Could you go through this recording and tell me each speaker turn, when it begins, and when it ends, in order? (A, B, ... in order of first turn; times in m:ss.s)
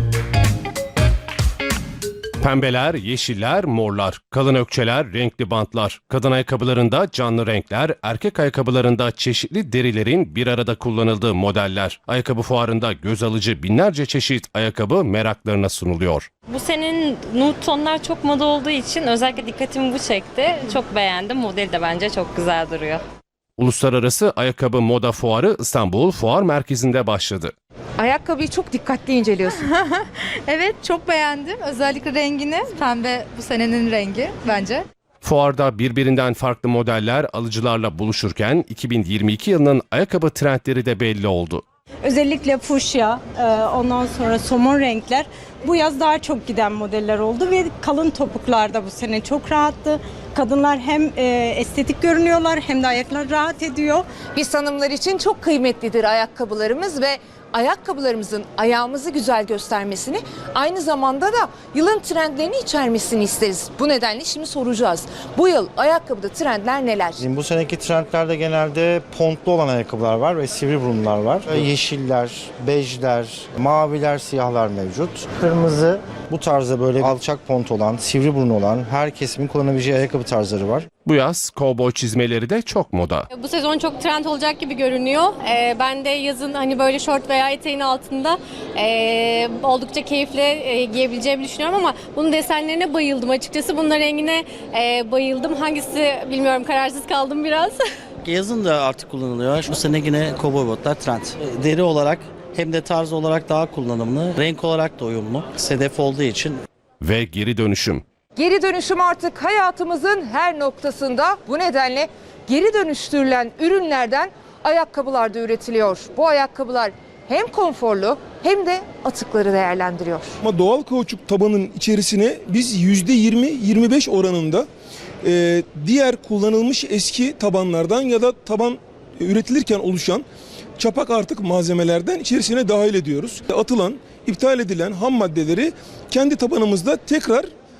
0:02.4-0:16.3 A
0:16.4-0:23.0 B
0:23.6-0:27.5 A
0:28.0-0:29.6 C
0:29.6-0:34.8 D
0:35.2-0:41.6 A
0:42.0-0:54.0 E
0:54.3-1:07.2 C
1:07.2-1:20.9 F
1:21.0-1:23.2 A
1:23.3-1:37.8 G
1:38.2-1:46.6 H
1:47.0-1:48.0 A
1:48.4-2:00.4 C
2:00.4-2:04.7 I
2:05.2-2:10.2 I
2:10.8-2:17.5 I